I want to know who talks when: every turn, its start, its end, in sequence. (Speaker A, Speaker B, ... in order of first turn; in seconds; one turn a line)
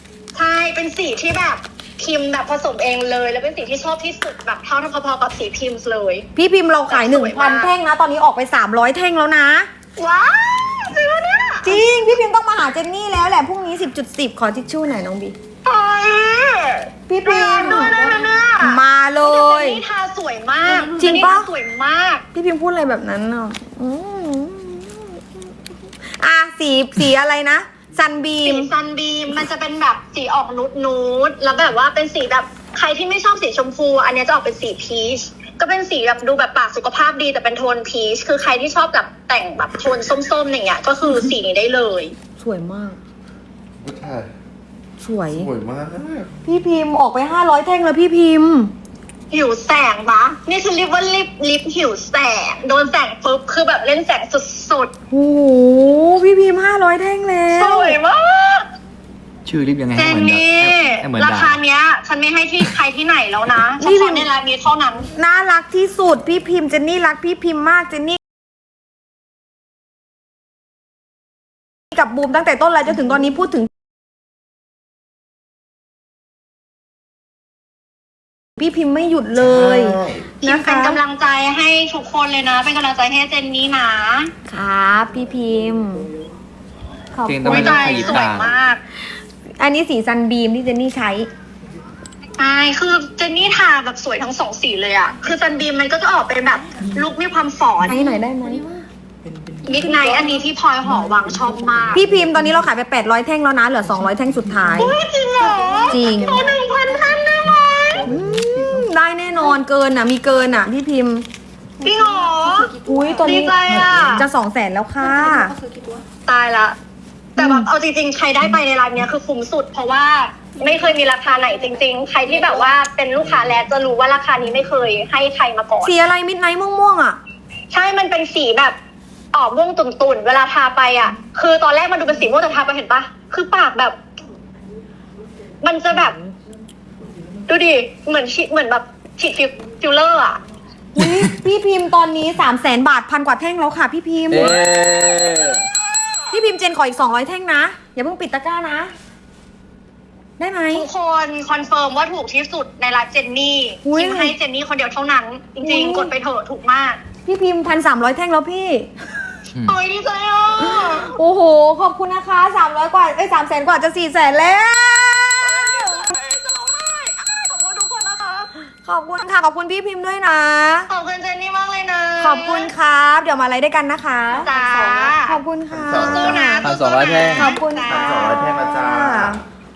Speaker A: 0.3-6.2
Speaker B: 6.3-9.7
Speaker A: 6.9-7.7
Speaker A: 10.0-11.8
Speaker B: 11.6-15.3
Speaker A: 15.6-22.2
Speaker B: 17.1-19.8
Speaker B: 21.0-21.5
Speaker B: 22.3-25.4
Speaker B: 26.1-28.7
Speaker A: 28.4-42.1
Speaker B: 42.4-43.0
Speaker C: 43.8-44.3
Speaker B: 45.0-45.5
Speaker C: 45.3-46.3
Speaker B: 46.4-48.7
Speaker A: 49.3-54.9
Speaker B: 55.1-58.0
Speaker A: 57.5-58.6
Speaker D: 59.4-61.6
Speaker A: 59.9-65.1
Speaker B: 63.8-64.3
Speaker B: 65.1-68.2
Speaker B: 71.9-73.7
Speaker B: 78.6-81.0
Speaker C: 79.3-80.3
Speaker A: 80.4-84.3
Speaker B: 84.5-86.1
Speaker B: 87.1-88.3
Speaker D: 87.2-88.5
Speaker A: 87.4-88.8
Speaker B: 89.6-91.3
Speaker A: 92.4-98.0
Speaker B: 97.8-98.6
Speaker E: 97.9-98.9
Speaker E: 99.6-100.4
Speaker A: 99.6-102.0
Speaker B: 101.9-104.9
Speaker A: 104.8-108.1
Speaker E: 105.4-107.2
Speaker B: 105.9-106.5
Speaker B: 108.0-111.3
Speaker E: 111.8-113.8
Speaker A: 111.8-114.2
Speaker B: 112.8-115.5
Speaker E: 115.0-116.0
Speaker A: 116.2-116.8
Speaker B: 117.4-117.7
Speaker A: 117.4-125.9
Speaker E: 120.5-122.7
Speaker B: 125.8-127.2
Speaker A: 127.7-128.8
Speaker A: 129.3-134.0
Speaker A: 135.6-136.2
Speaker A: 137.5-140.4
Speaker B: 140.9-144.6
Speaker D: 141.0-141.3
Speaker D: 144.3-145.7
Speaker B: 146.3-148.9
Speaker B: 150.4-150.9
Speaker A: 150.7-157.0
Speaker B: 153.8-154.3
Speaker B: 155.6-156.1
Speaker B: 157.2-158.9
Speaker A: 159.6-161.1
Speaker B: 160.6-166.1
Speaker A: 165.4-168.5
Speaker B: 168.8-170.9
Speaker A: 170.9-172.7
Speaker B: 172.2-176.7
Speaker A: 174.3-175.4
Speaker C: 175.7-176.6
Speaker A: 175.9-178.2
Speaker D: 176.6-177.6
Speaker B: 177.3-179.4
Speaker C: 177.8-179.4